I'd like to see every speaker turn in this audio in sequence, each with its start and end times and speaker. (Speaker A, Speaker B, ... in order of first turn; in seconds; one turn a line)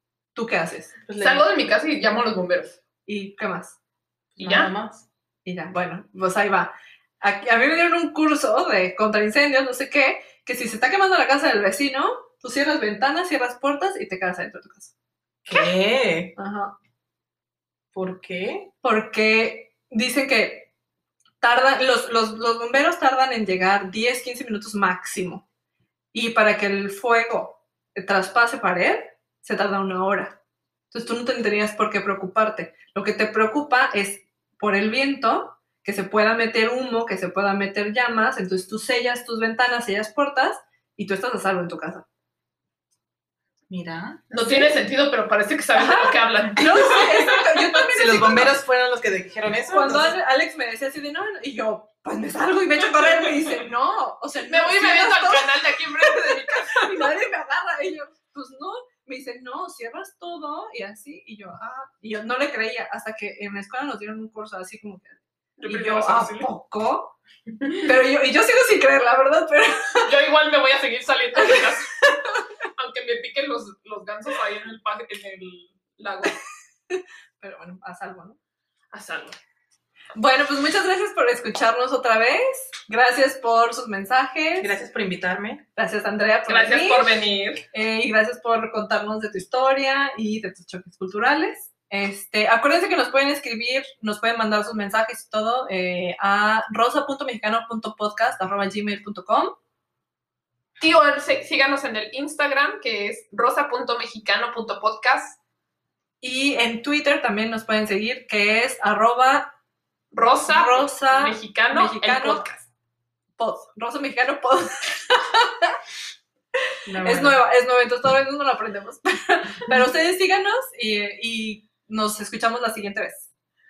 Speaker A: 0.3-0.9
Speaker B: 1.1-1.4
Speaker C: 1.2-2.8
Speaker A: 3.1-3.8
Speaker B: 4.4-5.0
Speaker C: 4.4-4.7
Speaker A: 5.4-14.9
Speaker B: 15.4-16.3
Speaker A: 16.4-16.7
Speaker B: 17.9-18.7
Speaker A: 18.8-20.7
Speaker A: 21.4-25.4
Speaker A: 26.1-30.4
Speaker A: 30.9-42.0
Speaker B: 43.7-44.2
Speaker C: 44.3-47.5
Speaker A: 45.7-48.6
Speaker B: 47.9-50.1
Speaker A: 49.7-67.2
Speaker C: 53.0-53.5
Speaker C: 54.5-57.1
Speaker C: 65.6-66.5
Speaker A: 67.8-70.1
Speaker C: 70.0-71.9
Speaker A: 71.4-72.4
Speaker C: 72.8-76.4
Speaker A: 76.9-78.4
Speaker C: 78.9-79.4
Speaker A: 80.2-84.8
Speaker B: 84.6-85.6
Speaker A: 85.8-87.2
Speaker C: 86.5-87.6
Speaker A: 87.7-99.6
Speaker C: 100.8-105.4
Speaker A: 106.2-109.5
Speaker C: 110.1-112.7
Speaker A: 110.5-112.5
Speaker A: 113.4-115.8
Speaker B: 116.8-117.4
Speaker A: 117.0-123.3